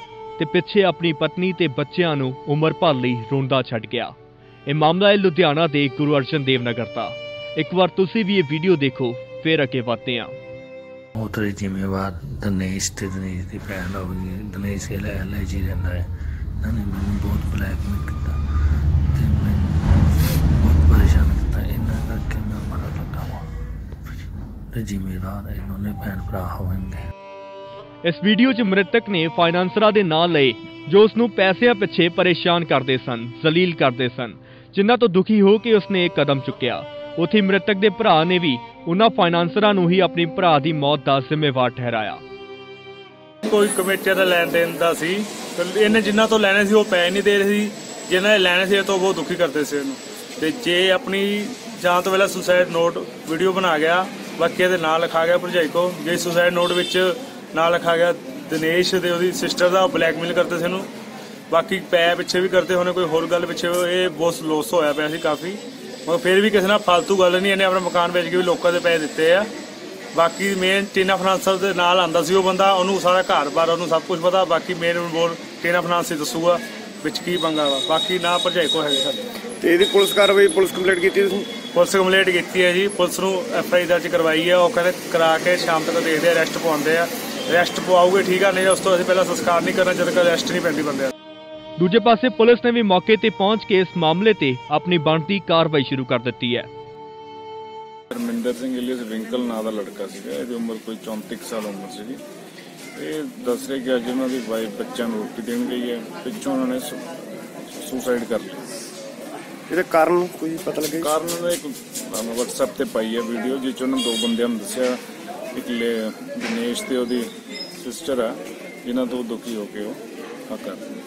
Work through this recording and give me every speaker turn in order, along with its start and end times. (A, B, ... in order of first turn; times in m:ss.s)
0:00.4-0:04.1 A
0:04.7-0:10.4 A
0:11.2-0:16.1 B
0:16.6-0:18.3 B
0:19.1-0:23.5 B
0:24.7-0:27.0 B
0:28.0-0:42.2 A
0:43.4-1:00.9 C
1:01.5-1:09.5 C
1:10.1-1:19.2 C
1:19.6-1:21.5 D
1:21.7-1:31.1 C
1:31.8-1:36.7 A
1:38.1-1:42.2 E
1:43.0-1:47.0 E
1:47.7-1:48.6 E
1:49.7-1:51.2 D
1:50.9-1:55.0 E
1:55.5-1:57.2 E
1:57.8-1:58.3 E
1:58.8-2:00.8 E